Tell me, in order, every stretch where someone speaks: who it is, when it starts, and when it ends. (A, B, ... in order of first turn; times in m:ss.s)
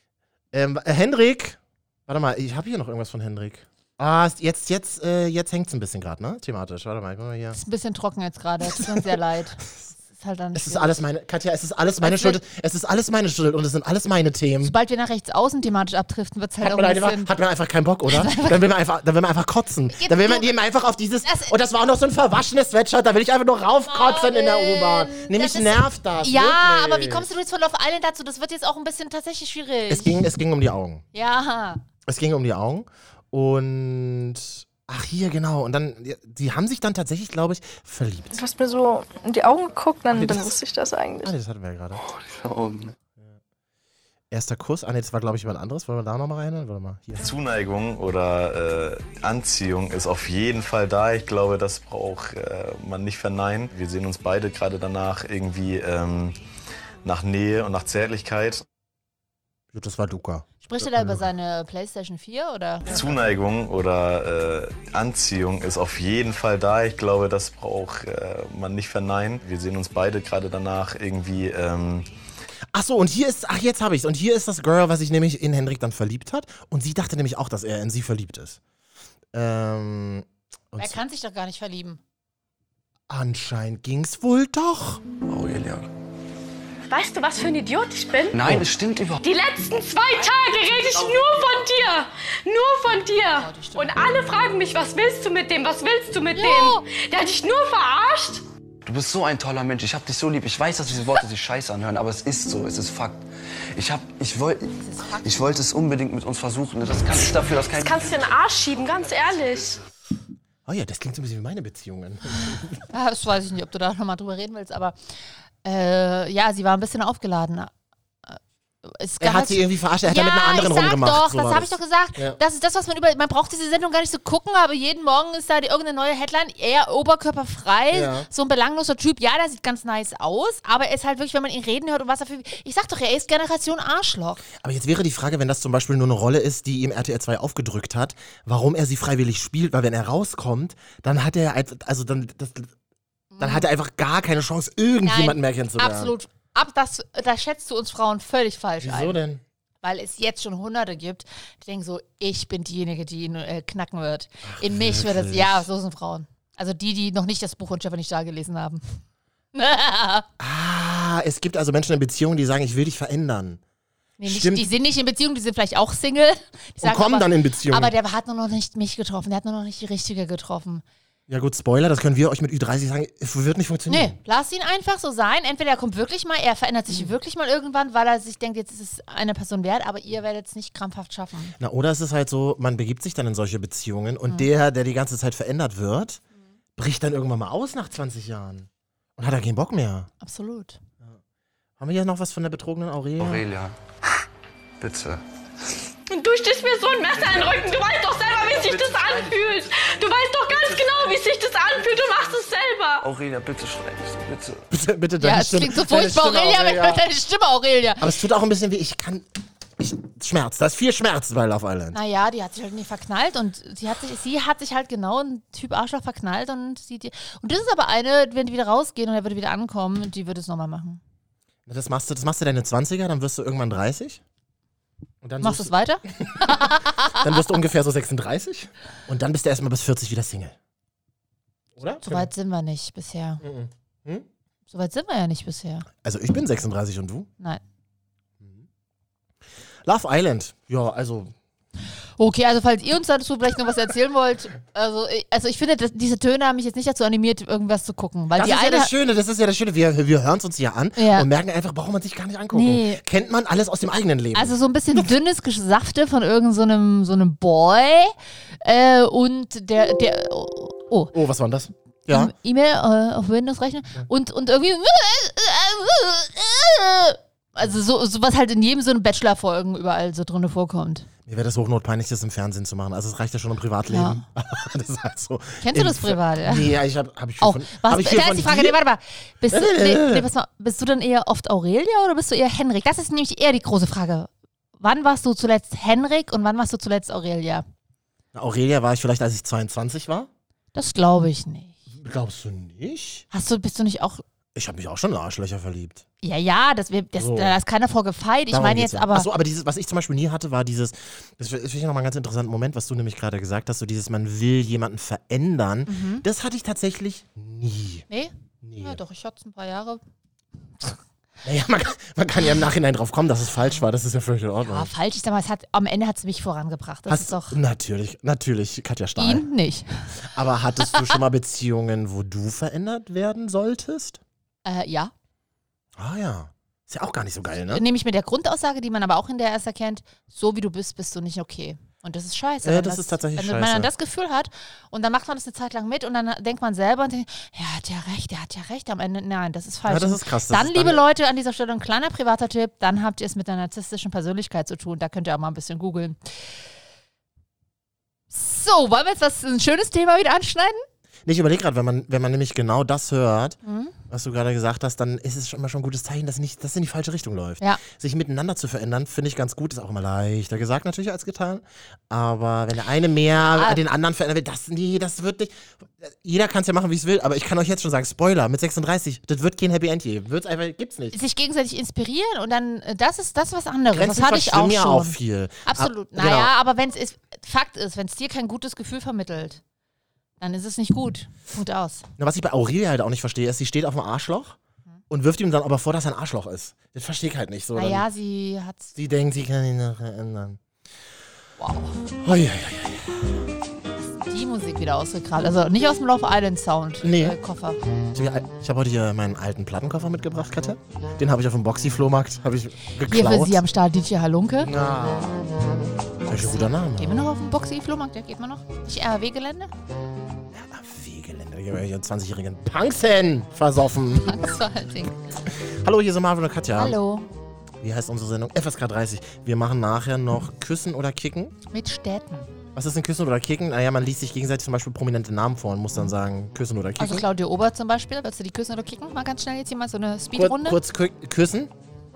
0:00.5-0:07.6 A
0:07.5-0:11.0 B
0:08.6-0:09.1 A
0:10.5-0:14.7 A
0:12.0-0:12.4 B
0:14.6-0:17.3 B
0:16.6-0:27.3 A
0:18.1-0:18.7 B
0:19.9-0:20.5 B
0:21.2-0:21.5 B
0:23.9-0:30.2 B
0:29.9-0:31.0 A
0:31.1-0:31.8 B
0:32.0-0:38.4 A
0:38.3-0:41.3 C
0:40.1-0:40.6 A
0:41.2-0:42.0 A
0:42.1-0:42.9 D
0:44.3-0:47.3 A
0:47.2-0:56.4 E
0:57.0-0:58.6 E
0:59.7-1:01.2 A
1:00.6-1:02.9 B
1:02.9-1:12.1 E
1:12.7-1:18.6 A
1:19.3-1:21.0 A
1:20.8-1:22.0 B
1:23.1-1:25.0 A
1:25.2-1:25.9 D
1:26.9-1:28.5 F
1:28.3-1:29.2 D
1:29.2-1:38.4 F
1:33.3-1:34.0 B
1:36.3-1:36.8 B
1:38.8-1:43.2 D
1:43.7-1:48.2 D
1:44.8-1:45.6 B
1:47.7-1:49.8 F
1:50.6-1:52.8 A
1:52.9-1:55.0 B
1:55.6-1:57.7 B
1:58.3-2:14.4 B
1:59.2-2:02.4 A
2:07.9-2:08.3 A
2:14.6-2:22.7 A
2:23.3-2:23.7 B
2:23.4-2:26.1 A
2:25.0-2:29.2 B
2:28.8-2:29.4 A
2:29.8-2:39.0 B
2:34.4-2:35.7 A
2:39.5-2:40.3 B
2:40.4-2:43.6 A
2:44.2-2:50.8 B
2:44.2-2:44.7 A
2:46.8-2:47.9 A
2:51.3-2:54.2 A
2:53.9-3:01.5 B
3:01.6-3:06.2 A
3:06.8-3:10.1 A
3:10.2-3:10.8 B
3:11.8-3:13.4 A
3:13.2-3:13.8 D
3:14.8-3:15.2 D
3:16.1-3:23.1 F
3:18.8-3:19.3 D
3:23.0-3:24.6 D
3:24.7-3:27.0 A
3:25.2-3:28.1 B
3:28.0-3:29.2 A
3:29.8-3:32.0 A
3:31.9-3:41.0 B
3:41.6-3:44.2 A
3:45.2-3:50.6 A
3:45.4-3:47.3 B
3:51.8-3:52.3 A
3:52.0-3:53.4 B
3:53.4-3:54.3 A
3:54.7-3:55.9 B
3:56.0-3:57.3 A
3:58.4-3:58.6 A
3:59.8-4:01.3 A
4:02.2-4:08.9 B
4:08.4-4:15.1 A
4:11.0-4:11.3 B
4:12.5-4:13.0 B
4:14.3-4:21.1 B
4:21.1-4:22.3 A
4:22.1-4:31.1 B
4:31.2-4:38.8 A
4:33.9-4:34.2 B
4:35.6-4:36.7 B
4:37.4-4:47.6 B
4:39.5-4:40.3 A
4:48.3-4:50.3 A
4:50.7-4:51.8 B
4:51.9-4:53.2 A
4:53.3-4:54.2 B
4:54.5-4:56.0 A
4:56.2-4:59.3 B
4:57.2-4:57.5 A
4:58.5-5:08.0 A
5:05.9-5:06.2 B
5:08.1-5:10.0 B
5:08.6-5:09.0 A
5:11.4-5:14.9 A
5:14.6-5:17.6 B
5:17.1-5:19.4 A
5:19.2-5:20.2 B
5:20.2-5:24.2 A
5:20.8-5:21.2 B
5:24.6-5:25.1 B
5:26.0-5:27.8 A
5:27.7-5:46.4 B
5:32.6-5:33.9 A
5:39.9-5:41.0 A
5:48.3-5:50.8 B
5:51.2-5:53.6 A
5:53.6-5:53.9 B
5:54.1-6:11.2 A
6:03.4-6:03.8 B
6:11.1-6:19.6 B
6:13.9-6:16.5 A
6:20.4-6:22.1 B
6:22.2-6:24.6 A
6:25.1-6:28.0 A
6:27.7-6:28.9 B
6:28.9-6:30.6 A
6:31.6-6:31.9 B
6:32.2-6:33.4 A
6:34.1-6:37.8 B
6:37.0-6:37.4 A
6:38.1-6:43.6 A
6:43.1-6:44.7 B
6:44.6-6:45.5 A
6:46.2-6:47.2 A
6:46.5-6:49.7 B
6:50.5-6:54.4 A
6:54.2-6:55.2 B
6:55.8-6:57.0 A
6:56.8-6:57.3 B
6:57.8-7:01.5 A
7:01.7-7:02.5 B
7:02.7-7:07.2 A
7:07.0-7:10.8 B
7:10.3-7:11.7 A